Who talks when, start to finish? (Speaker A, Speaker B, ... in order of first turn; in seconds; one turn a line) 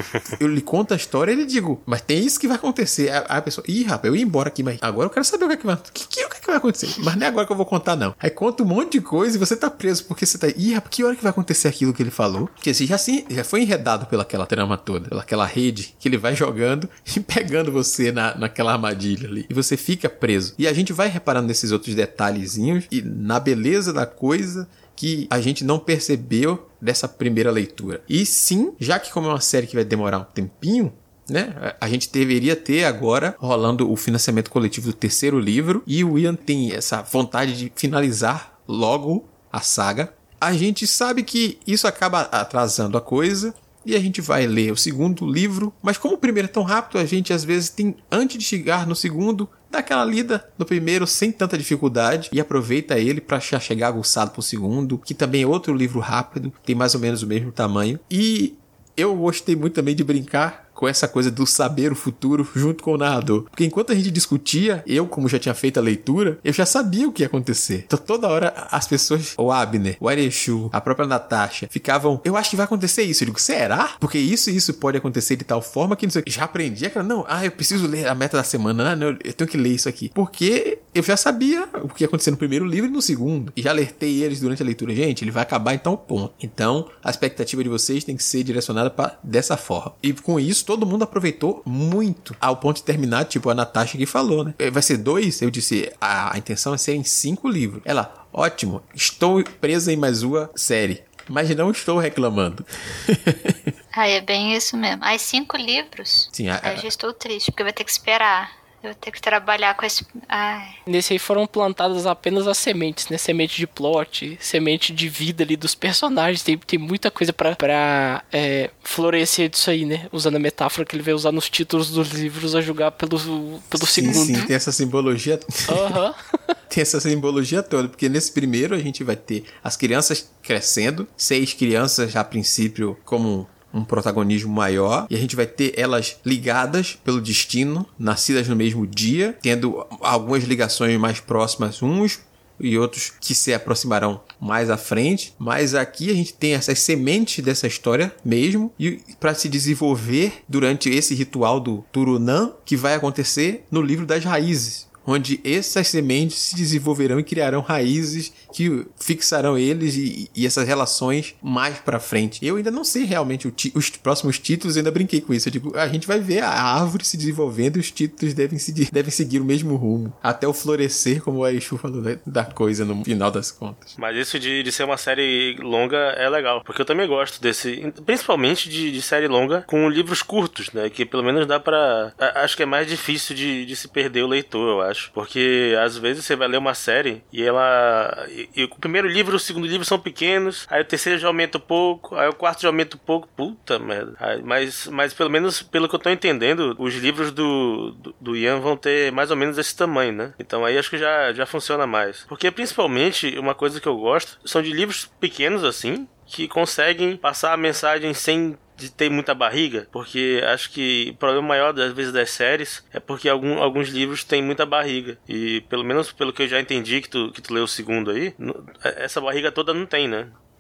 Speaker A: 0.3-103.7
Speaker B: 103.9-110.8
Speaker A: 106.3-106.9
Speaker C: 110.9-124.3
Speaker A: 123.8-126.0
Speaker B: 124.0-124.5
Speaker C: 125.7-126.2
Speaker A: 126.7-173.9
Speaker D: 174.0-220.3